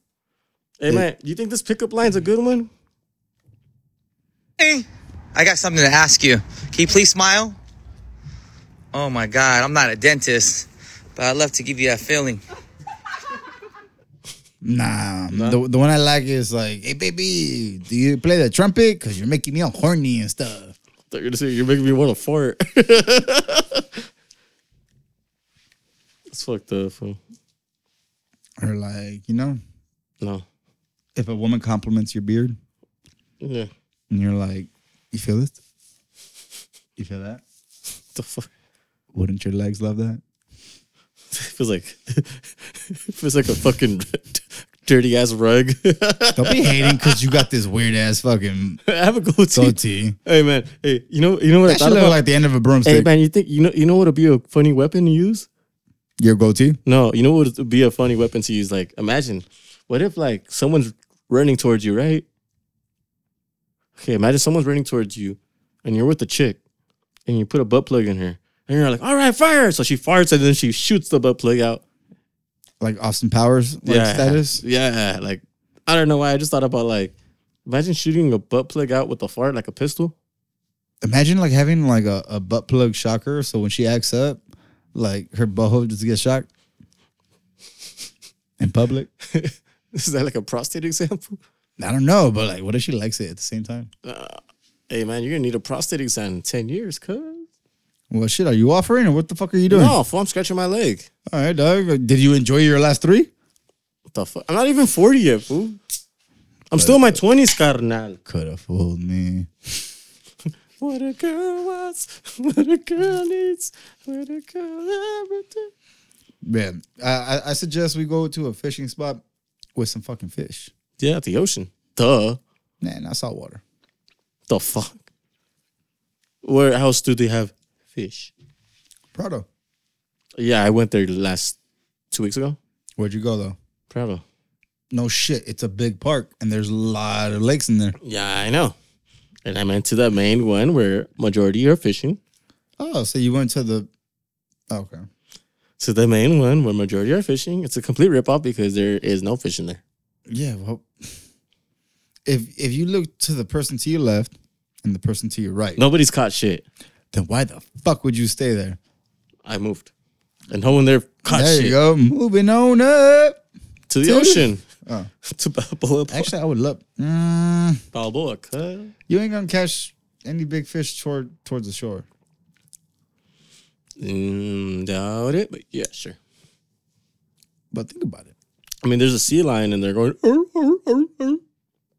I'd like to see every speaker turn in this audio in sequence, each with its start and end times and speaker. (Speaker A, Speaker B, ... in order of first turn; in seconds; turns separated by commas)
Speaker A: 0.8-2.7, Speaker B: 4.6-7.6, Speaker B: 8.9-12.4, Speaker C: 14.6-20.7, Speaker A: 15.3-15.6, Speaker A: 21.1-24.0, Speaker A: 26.3-27.2, Speaker C: 28.6-29.6, Speaker C: 31.1-32.6, Speaker A: 33.4-33.7, Speaker C: 34.1-35.6, Speaker C: 37.0-37.4, Speaker A: 38.1-38.5, Speaker C: 39.1-40.2, Speaker A: 41.3-47.2, Speaker C: 46.4-48.8, Speaker A: 48.9-52.2, Speaker C: 49.5-50.1, Speaker C: 51.7-53.1, Speaker A: 52.8-55.5, Speaker C: 56.2-56.8, Speaker A: 56.9-62.2, Speaker A: 64.0-66.6, Speaker A: 67.3-71.8, Speaker C: 72.8-74.6, Speaker A: 73.8-77.1, Speaker A: 77.7-80.1, Speaker C: 81.0-84.4, Speaker C: 84.9-86.5, Speaker C: 88.6-89.1, Speaker A: 89.3-91.4, Speaker C: 91.8-93.9, Speaker A: 94.0-97.4, Speaker C: 98.1-100.0, Speaker A: 99.7-101.1, Speaker C: 101.3-103.3, Speaker A: 104.1-105.8, Speaker A: 106.7-108.2, Speaker C: 106.8-107.2, Speaker C: 108.2-109.7, Speaker A: 110.8-115.7, Speaker C: 116.4-119.2, Speaker C: 119.7-120.7, Speaker A: 121.0-122.4, Speaker C: 122.8-123.6, Speaker A: 124.5-125.0, Speaker A: 126.4-128.3, Speaker C: 129.1-129.4, Speaker A: 130.4-131.6, Speaker A: 132.1-132.6, Speaker C: 133.0-133.6, Speaker A: 133.9-134.2, Speaker C: 134.9-137.9, Speaker A: 138.0-138.8, Speaker A: 139.4-142.2, Speaker C: 142.8-143.9, Speaker C: 144.7-145.0, Speaker A: 145.8-149.8, Speaker C: 150.3-150.9, Speaker C: 152.2-155.8, Speaker A: 155.8-156.6, Speaker C: 157.1-158.8, Speaker A: 159.4-159.9, Speaker A: 160.5-161.8, Speaker C: 161.3-163.4, Speaker A: 163.9-164.6, Speaker C: 164.0-165.1, Speaker A: 165.2-166.3, Speaker C: 166.1-167.8, Speaker A: 167.9-168.9, Speaker C: 169.1-172.1, Speaker A: 174.0-176.2, Speaker C: 177.7-178.3, Speaker A: 178.8-181.4